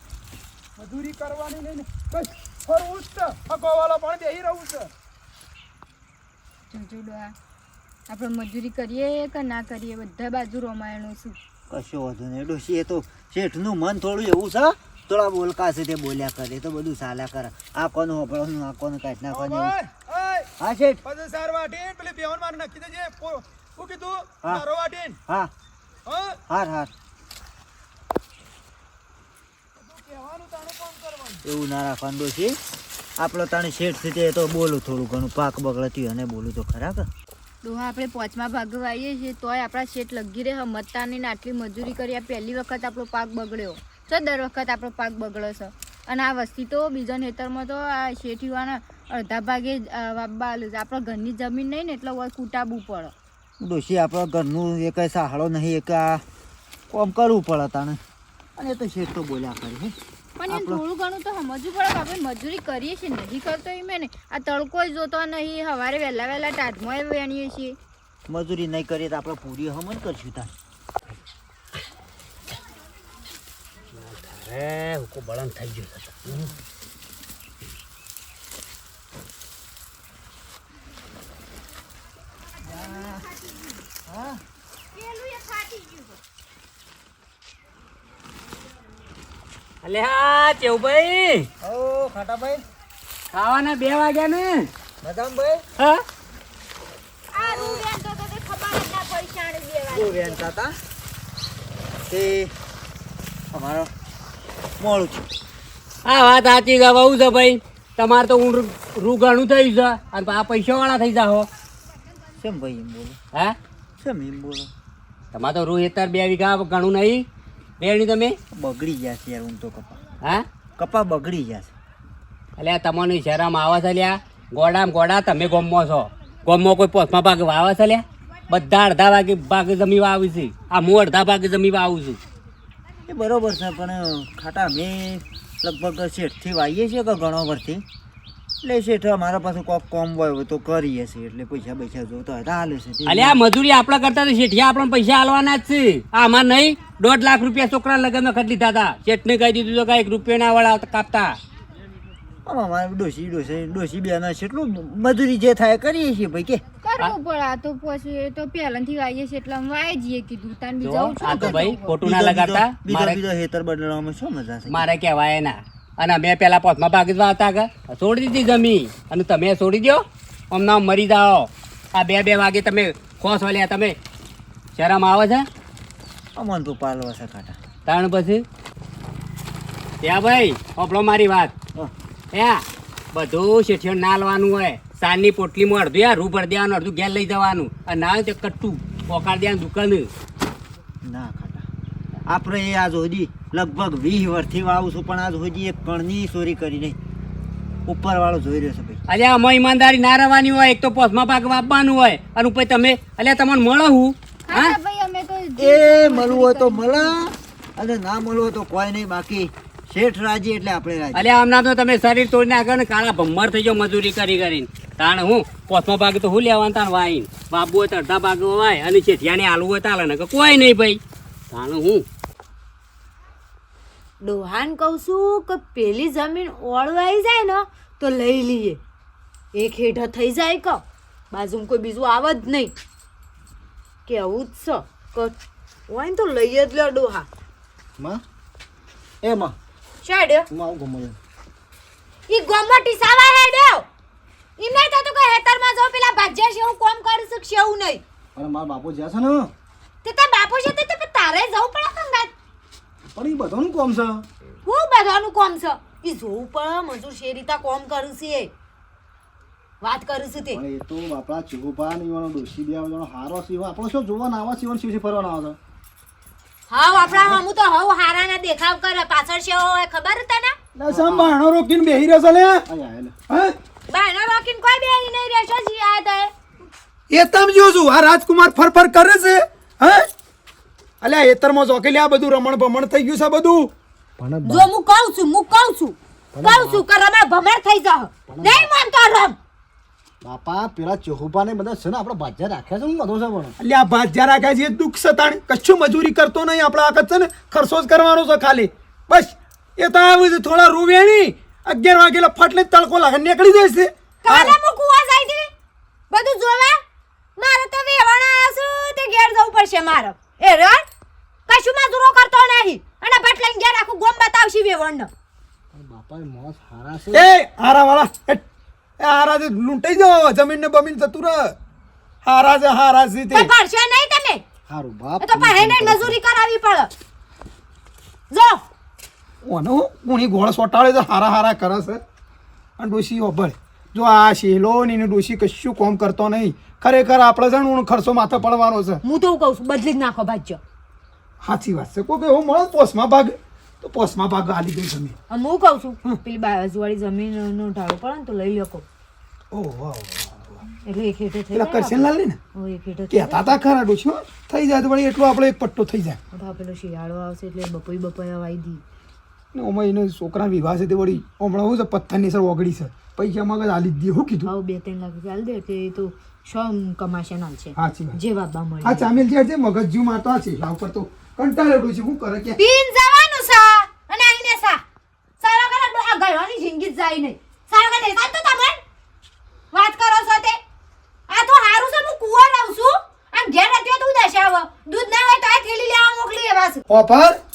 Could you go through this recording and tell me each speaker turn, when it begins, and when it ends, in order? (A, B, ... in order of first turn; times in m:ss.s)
0:00.8-0:04.9 A
0:06.7-0:07.4 B
0:08.1-0:11.4 B
0:11.7-0:19.7 C
0:19.3-0:20.5 A
0:20.6-0:21.0 C
0:21.0-0:25.2 A
0:25.3-0:25.5 C
0:26.1-0:26.4 A
0:26.5-0:26.9 C
0:29.8-0:31.4 A
0:31.4-0:32.6 C
0:33.2-0:37.1 C
0:37.6-0:53.1 B
0:53.6-0:56.2 C
0:56.9-0:58.0 C
0:58.6-1:00.0 C
1:00.4-1:07.8 B
1:00.5-1:00.8 C
1:08.3-1:10.5 C
1:14.0-1:16.5 D
1:22.6-1:23.3 C
1:22.8-1:23.2 B
1:24.0-1:24.4 C
1:25.0-1:26.1 B
1:29.8-1:31.5 D
1:31.6-1:32.6 C
1:33.3-1:34.7 D
1:35.0-1:35.6 C
1:35.8-1:36.0 D
1:37.3-1:40.4 B
1:37.4-1:37.8 C
1:39.9-1:40.8 C
1:42.1-1:42.5 C
1:43.5-1:43.9 C
1:44.8-1:45.3 C
1:46.0-1:51.5 D
1:52.4-1:53.2 C
1:54.0-1:54.7 C
1:55.3-1:57.2 D
1:57.8-1:58.4 D
1:58.5-2:00.0 C
2:00.8-2:01.7 C
2:02.6-2:12.2 D
2:13.1-2:17.8 C
2:18.6-2:23.4 C
2:23.1-2:31.4 D
2:32.4-2:36.6 C
2:36.8-2:41.8 B
2:40.8-2:43.2 D
2:41.2-2:44.9 C
2:44.7-2:54.0 D
2:54.8-2:55.4 D
2:56.4-2:57.6 C
2:57.9-2:58.4 D
3:00.0-3:01.5 D
3:02.3-3:10.1 D
3:11.0-3:11.7 C
3:12.3-3:17.0 C
3:17.9-3:19.0 C
3:19.1-3:24.8 D
3:24.5-3:27.1 B
3:25.6-3:31.3 C
3:31.1-3:41.0 D
3:41.5-3:42.0 D
3:44.2-3:48.8 E
3:49.5-3:52.7 E
3:54.1-3:55.4 E
3:55.9-3:57.3 E
3:59.2-3:59.6 F
4:00.0-4:00.5 E
4:00.5-4:01.2 F
4:02.3-4:03.9 E
4:04.6-4:08.0 E
4:08.4-4:09.5 F
4:10.0-4:12.3 E
4:13.1-4:14.2 F
4:14.6-4:18.5 E
4:19.8-4:20.6 E
4:20.5-4:25.6 F
4:26.7-4:30.6 E
4:27.1-4:27.4 F
4:30.8-4:32.6 A
4:30.9-4:31.3 F
4:32.7-4:33.1 F
4:33.3-4:33.6 A
4:33.9-4:36.3 E
4:37.1-4:40.1 A
4:41.0-4:43.7 A
4:44.2-4:44.7 F
4:44.4-4:49.4 E
4:46.3-4:46.8 F
4:48.3-4:48.7 F
4:50.2-4:53.6 F
4:53.6-5:04.6 A
5:04.2-5:05.5 E
5:06.1-5:06.8 E
5:07.4-5:10.9 E
5:11.5-5:15.1 E
5:15.7-5:17.3 F
5:17.1-5:18.4 A
5:19.0-5:21.6 A
5:22.2-5:23.5 A
5:23.3-5:24.4 E
5:24.7-5:26.2 F
5:25.2-5:26.9 E
5:28.3-5:28.6 E
5:29.4-5:32.0 A
5:32.8-5:39.0 A
5:39.0-5:40.6 E
5:41.4-5:45.1 A
5:45.3-5:48.8 E
5:49.5-5:50.6 A
5:50.8-5:53.6 E
5:51.5-5:52.4 A
5:53.1-5:56.2 A
5:56.3-5:58.8 E
5:59.5-6:04.5 A
6:04.4-6:09.1 E
6:07.8-6:08.2 A
6:08.8-6:12.6 A
6:12.6-6:14.8 E
6:15.4-6:18.8 E
6:19.7-6:20.6 E
6:21.3-6:26.8 E
6:26.9-6:27.4 A